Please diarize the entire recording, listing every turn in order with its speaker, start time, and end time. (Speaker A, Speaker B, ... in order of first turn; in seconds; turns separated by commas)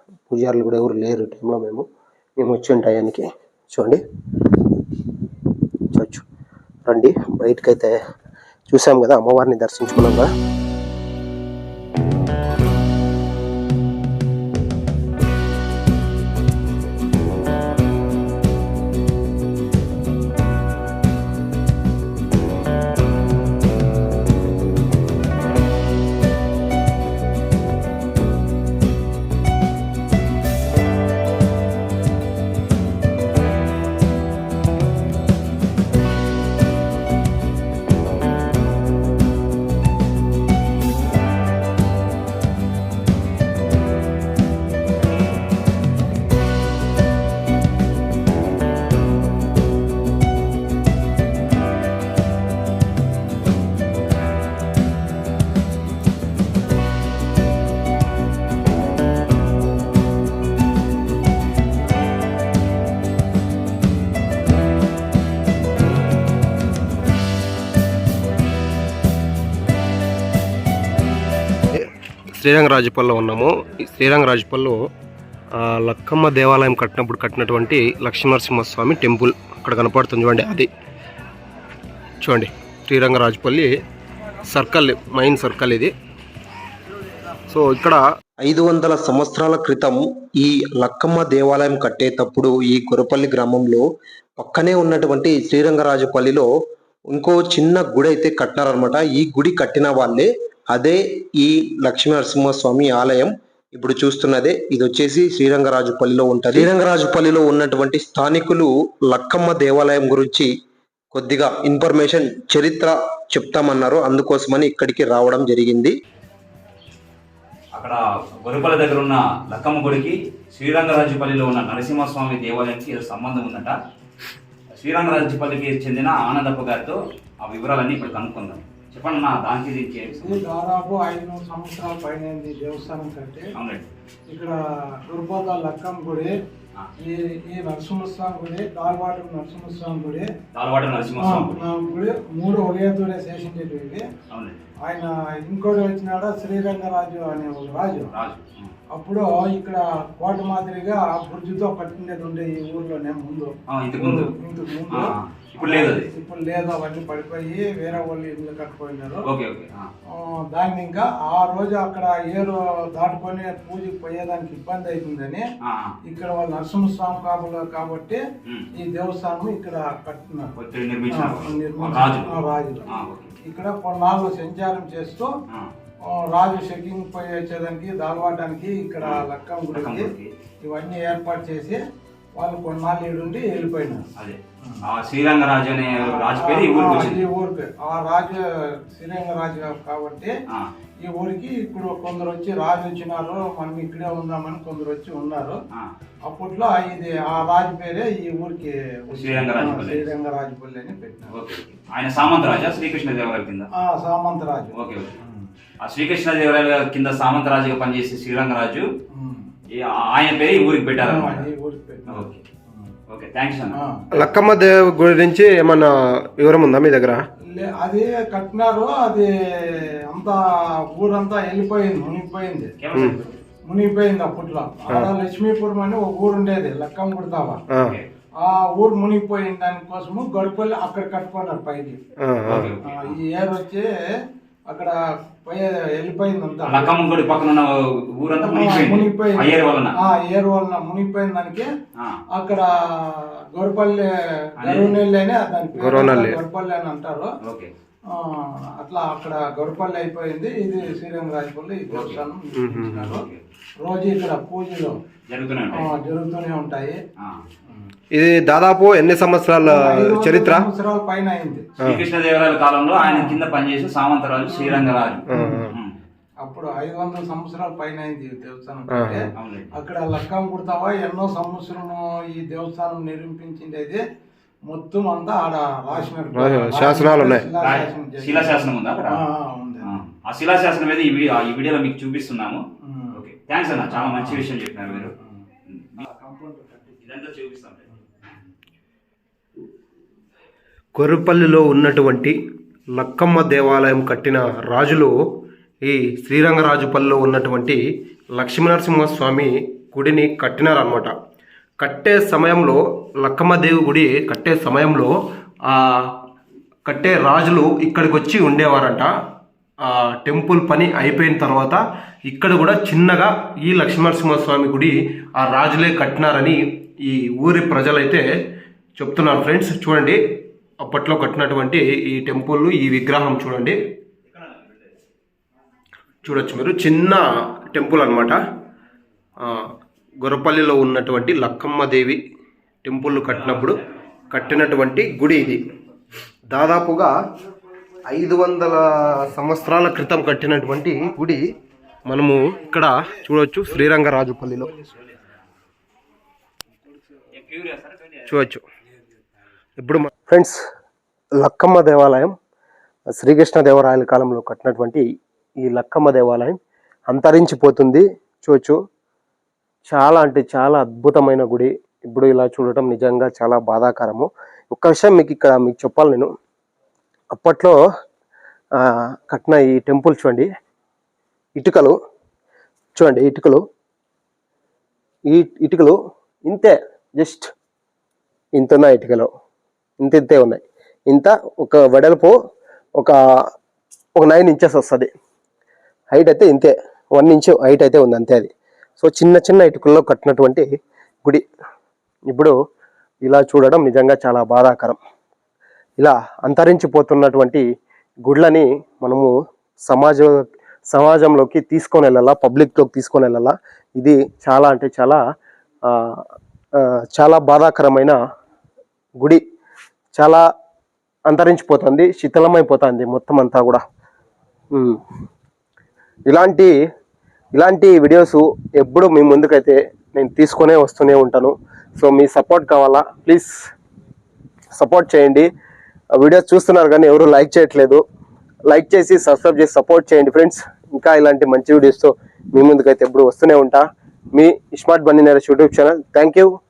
Speaker A: 0.3-1.8, Speaker A: 2.4-4.0, Speaker A: 5.9-6.2, Speaker A: 6.9-8.0, Speaker A: 8.7-10.3, Speaker A: 71.7-74.8, Speaker A: 75.6-80.7, Speaker A: 82.2-83.7, Speaker A: 84.5-85.9, Speaker A: 87.5-88.0, Speaker B: 88.4-93.8, Speaker B: 94.4-96.5, Speaker B: 97.1-110.5, Speaker B: 111.1-116.0, Speaker C: 117.7-123.8, Speaker C: 124.7-130.4, Speaker D: 130.1-133.5, Speaker C: 133.6-133.9, Speaker D: 134.3-136.3, Speaker D: 137.0-140.3, Speaker C: 140.5-141.7, Speaker D: 141.2-144.1, Speaker C: 144.3-144.6, Speaker D: 144.8-148.1, Speaker C: 148.1-148.7, Speaker D: 148.9-159.3, Speaker C: 153.7-154.3, Speaker C: 154.9-156.1, Speaker C: 159.2-159.9, Speaker D: 160.1-165.5, Speaker C: 165.6-165.9, Speaker D: 166.1-170.5, Speaker C: 170.6-173.4, Speaker D: 171.1-175.3, Speaker D: 176.0-180.1, Speaker C: 179.0-180.3, Speaker D: 180.6-181.8, Speaker D: 182.4-184.1, Speaker C: 184.2-187.2, Speaker D: 186.0-190.3, Speaker D: 191.0-195.6, Speaker D: 196.2-201.4, Speaker C: 199.1-200.1, Speaker C: 201.3-203.7, Speaker D: 203.7-205.5, Speaker C: 204.7-205.2, Speaker C: 205.8-208.9, Speaker D: 209.1-209.5, Speaker C: 209.7-211.5, Speaker D: 211.0-212.9, Speaker C: 212.1-212.4, Speaker C: 213.1-213.8, Speaker D: 213.7-214.1, Speaker A: 214.1-217.2, Speaker D: 217.5-222.7, Speaker C: 222.8-223.4, Speaker D: 223.7-227.6, Speaker C: 227.8-228.1, Speaker D: 228.4-232.0, Speaker A: 232.2-232.7, Speaker C: 232.4-233.2, Speaker D: 232.8-237.0, Speaker C: 236.6-240.0, Speaker D: 238.4-241.7, Speaker D: 242.3-247.3, Speaker C: 244.6-245.0, Speaker A: 245.8-246.4, Speaker C: 247.4-247.7, Speaker D: 248.1-253.2, Speaker C: 251.9-252.2, Speaker A: 252.6-253.0, Speaker C: 253.0-253.4, Speaker D: 253.8-255.0, Speaker C: 255.3-255.9, Speaker D: 255.7-257.0, Speaker D: 257.7-257.9, Speaker A: 258.1-260.7, Speaker D: 259.6-261.8, Speaker C: 261.8-265.9, Speaker D: 263.0-263.4, Speaker D: 264.5-265.7, Speaker A: 265.3-265.7, Speaker D: 266.4-274.0, Speaker A: 268.9-269.2, Speaker C: 269.4-269.7, Speaker D: 274.7-279.9, Speaker A: 276.3-277.5, Speaker C: 277.6-279.2, Speaker C: 279.8-282.6, Speaker D: 282.8-283.2, Speaker C: 283.1-285.1, Speaker D: 283.9-284.4, Speaker D: 284.9-285.5, Speaker C: 285.7-286.0, Speaker D: 286.0-287.0, Speaker C: 287.0-287.9, Speaker A: 290.9-292.4, Speaker A: 292.9-295.1, Speaker A: 295.8-297.8, Speaker A: 298.3-301.1, Speaker A: 301.8-305.1, Speaker A: 305.7-306.2, Speaker A: 306.9-309.1, Speaker A: 309.9-318.3, Speaker A: 319.0-320.2, Speaker A: 320.8-323.8, Speaker C: 324.3-324.9, Speaker A: 326.2-328.4, Speaker A: 329.4-329.7, Speaker A: 330.2-332.2, Speaker A: 332.8-333.8, Speaker C: 333.1-334.9, Speaker A: 334.3-335.6, Speaker A: 336.5-337.1, Speaker A: 338.1-341.4, Speaker A: 342.1-344.7, Speaker C: 344.8-345.3, Speaker C: 347.3-348.4, Speaker A: 348.3-348.6, Speaker A: 349.8-350.6, Speaker A: 351.4-352.4, Speaker A: 353.2-355.0, Speaker A: 355.6-356.6, Speaker A: 357.1-358.8, Speaker A: 359.9-366.3, Speaker A: 367.3-367.8, Speaker A: 369.3-370.5, Speaker A: 371.6-371.9, Speaker A: 373.0-373.6, Speaker A: 375.3-375.9, Speaker A: 376.5-377.5, Speaker A: 378.6-379.3, Speaker A: 380.0-382.3, Speaker A: 384.2-385.1, Speaker A: 386.1-390.6, Speaker A: 393.2-395.0, Speaker A: 396.0-397.6, Speaker A: 398.2-399.3, Speaker A: 399.9-400.3, Speaker A: 400.9-405.2, Speaker A: 405.9-406.2, Speaker A: 407.1-408.2, Speaker A: 410.1-410.4, Speaker A: 411.3-413.8, Speaker A: 414.7-415.0, Speaker A: 416.3-416.7, Speaker A: 417.6-423.6, Speaker A: 424.8-425.5, Speaker A: 426.2-428.0, Speaker A: 428.7-436.5